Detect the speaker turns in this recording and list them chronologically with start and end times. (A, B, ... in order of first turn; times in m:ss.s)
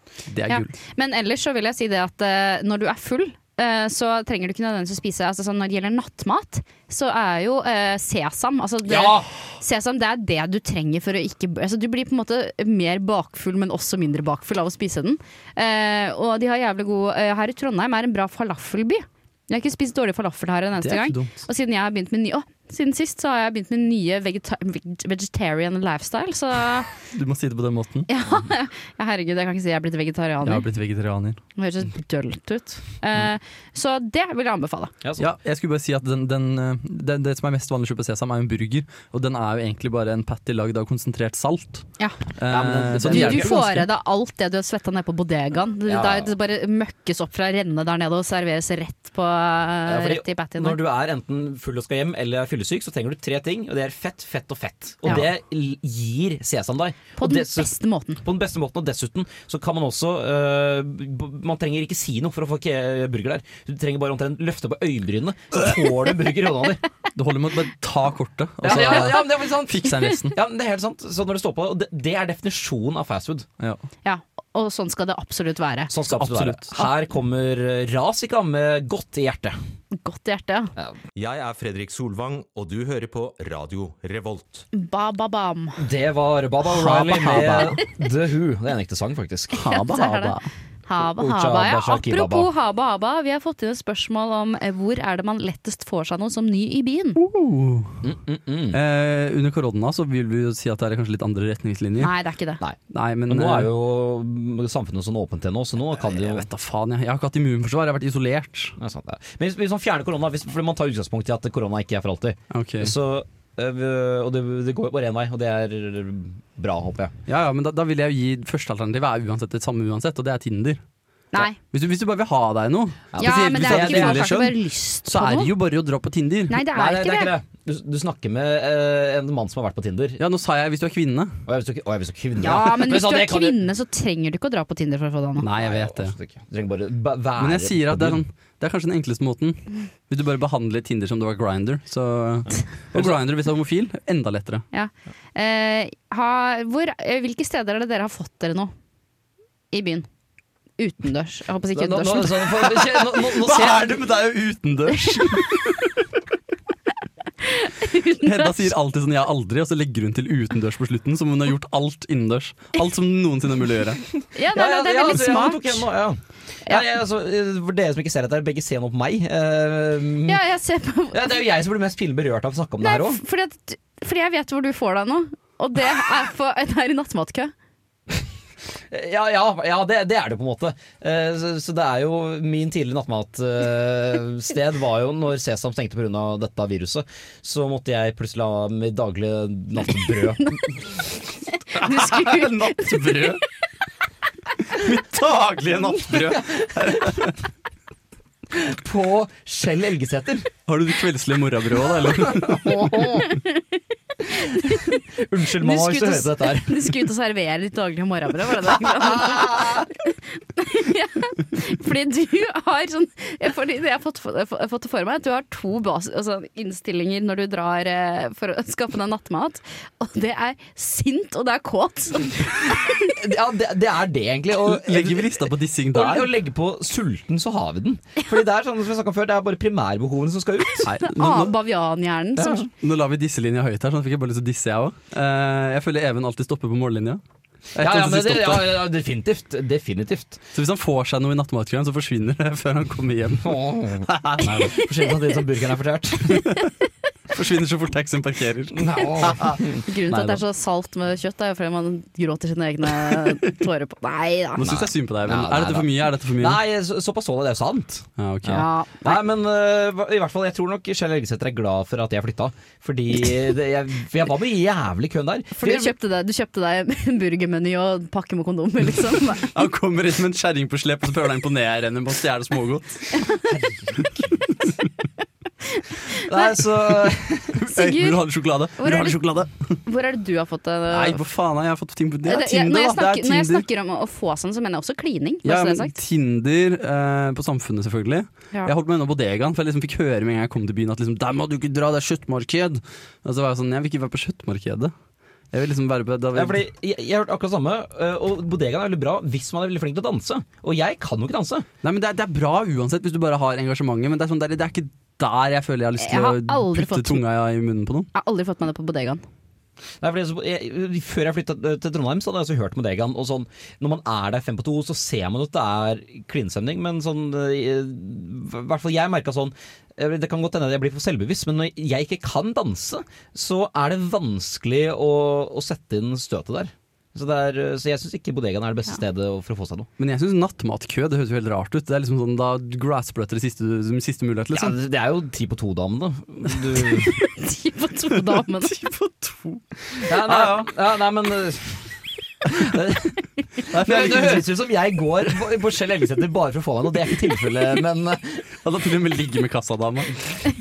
0:00.3-0:00.7 A
0:00.5-0:26.9 B
0:08.8-0:09.3 C
0:20.8-0:21.3 A
0:27.1-0:28.1 A
0:28.1-0:30.7 B
0:30.4-0:31.4 A
0:31.6-0:34.9 B
0:35.0-0:35.3 C
0:35.2-0:41.9 A
0:42.4-0:43.8 A
0:42.5-0:43.6 C
0:43.0-0:50.8 B
0:45.9-0:46.3 C
0:49.8-0:57.7 C
0:57.2-0:58.2 B
0:58.2-1:06.8 C
1:07.1-1:10.4 A
1:08.6-1:13.5 C
1:14.0-1:15.9 B
1:15.9-1:19.6 C
1:16.1-1:16.7 A
1:19.9-1:20.7 B
1:21.2-1:24.6 D
1:24.7-1:25.8 B
1:25.8-1:29.6 C
1:26.6-1:27.8 A
1:29.5-1:30.4 A
1:29.6-1:37.2 B
1:31.2-1:32.5 C
1:37.2-1:38.0 A
1:38.0-1:38.8 C
1:38.7-1:42.1 A
1:42.0-1:42.6 B
1:42.9-1:43.7 A
1:43.3-1:46.5 C
1:46.1-1:48.8 A
1:48.8-1:57.1 C
1:52.5-1:52.9 A
1:57.3-2:00.8 A
2:01.6-2:06.6 A
2:03.1-2:04.3 C
2:03.2-2:05.5 B
2:06.5-2:07.3 B
2:06.7-2:10.2 C
2:10.2-2:11.4 A
2:11.5-2:13.6 C
2:12.4-2:15.5 B
2:15.4-2:16.1 A
2:15.6-2:18.2 C
2:17.4-2:24.6 A
2:24.7-2:28.7 B
2:29.7-2:30.1 B
2:30.8-2:32.5 B
2:31.7-2:34.0 C
2:32.8-2:35.9 A
2:37.4-2:38.7 B
2:38.2-2:44.0 A
2:44.3-2:45.8 B
2:44.5-2:50.4 C
2:50.2-2:51.4 B
2:51.1-2:53.2 C
2:52.8-2:57.5 B
2:58.9-3:10.9 C
3:11.7-3:13.3 B
3:11.7-3:13.4 A
3:14.7-3:17.4 A
3:16.1-3:17.2 C
3:18.5-3:20.5 C
3:20.7-3:23.2 A
3:22.2-3:23.3 C
3:23.2-3:23.6 B
3:24.2-3:25.0 B
3:24.7-3:26.9 C
3:25.6-3:43.2 B
3:28.9-3:29.8 C
3:43.1-3:50.9 C
3:44.6-3:46.3 A
3:50.8-3:51.5 A
3:51.0-3:52.7 B
3:52.4-3:52.6 C
3:52.7-3:57.2 A
3:57.7-3:58.8 A
3:57.8-4:00.4 C
4:00.5-4:04.7 A
4:03.4-4:06.5 C
4:06.3-4:06.7 A
4:07.3-4:10.4 A
4:08.7-4:09.8 C
4:09.8-4:14.6 B
4:14.6-4:16.6 A
4:14.6-4:25.9 C
4:18.2-4:18.7 A
4:18.5-4:19.2 B
4:25.6-4:29.5 B
4:29.4-4:33.2 A
4:33.5-4:34.3 C
4:35.7-4:36.4 B
4:36.1-4:37.6 C
4:37.6-4:39.8 A
4:37.7-4:38.2 B
4:38.8-4:39.2 B
4:39.8-4:41.2 B
4:40.9-4:43.6 A
4:42.2-4:45.9 B
4:45.4-4:54.9 A
4:55.5-4:56.6 A
4:56.3-5:01.7 C
5:01.8-5:08.1 A
5:06.0-5:07.2 B
5:08.1-5:09.2 B
5:10.0-5:29.9 C
5:30.0-5:34.8 A
5:34.5-5:37.2 C
5:37.1-5:38.8 B
5:38.6-5:40.7 A
5:40.0-5:48.4 C
5:43.7-5:44.5 A
5:48.6-5:50.2 A